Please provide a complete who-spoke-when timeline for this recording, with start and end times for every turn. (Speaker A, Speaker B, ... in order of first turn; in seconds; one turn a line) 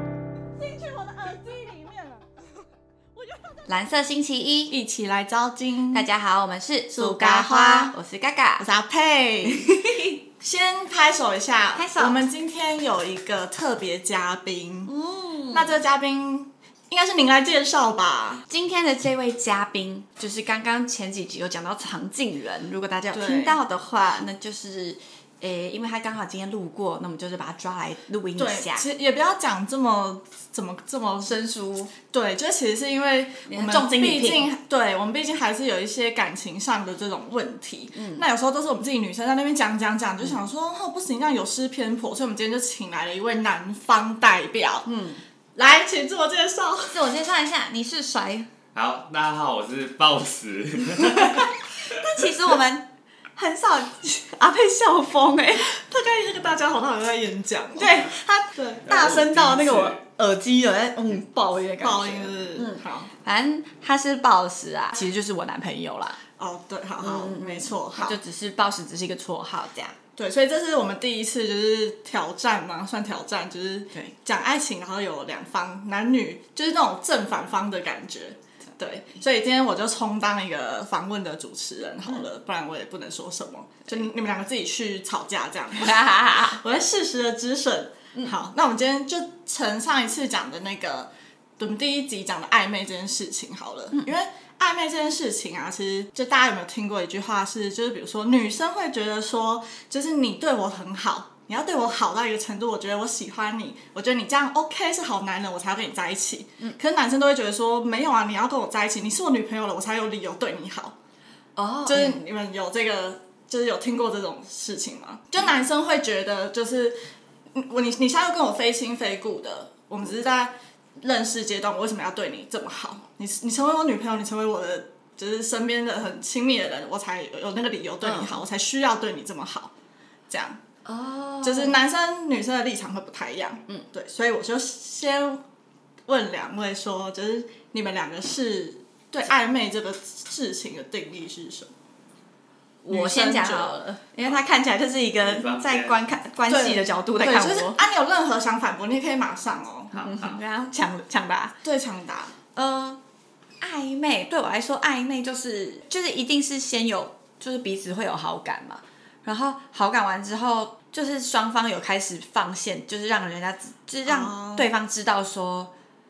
Speaker A: 0.6-2.5
Speaker A: 3.1-3.7
Speaker B: 3.7-4.7
Speaker A: 4.7-6.1
Speaker B: 5.9-8.7
Speaker A: 6.9-7.9
Speaker A: 8.6-14.9
Speaker B: 9.4-10.2
Speaker B: 11.7-12.2
Speaker B: 14.9-15.8
Speaker A: 15.5-18.4
Speaker B: 18.5-28.8
Speaker A: 23.1-23.6
Speaker A: 28.4-31.4
Speaker B: 31.2-31.9
Speaker A: 32.0-44.9
Speaker B: 33.5-34.5
Speaker B: 37.9-38.2
Speaker B: 44.9-45.2
Speaker A: 45.5-47.0
Speaker B: 46.9-48.5
Speaker C: 48.7-51.5
Speaker B: 51.8-55.7
Speaker A: 55.7-58.8
Speaker B: 57.8-66.2
Speaker C: 58.9-60.0
Speaker A: 61.8-63.1
Speaker A: 66.4-68.2
Speaker B: 67.0-69.9
Speaker A: 70.2-110.9
Speaker B: 85.8-86.6
Speaker B: 111.5-112.2
Speaker A: 111.8-117.0
Speaker A: 117.5-129.7
Speaker B: 128.0-128.4
Speaker A: 130.3-130.6
Speaker B: 130.8-131.8
Speaker A: 131.4-135.4
Speaker A: 136.1-141.7
Speaker B: 142.8-147.8
Speaker A: 142.9-143.8
Speaker C: 145.2-146.0
Speaker A: 146.5-149.9
Speaker B: 149.9-151.6
Speaker C: 149.9-150.4
Speaker A: 151.6-152.3
Speaker B: 152.5-153.0
Speaker B: 153.6-165.7
Speaker A: 164.1-164.7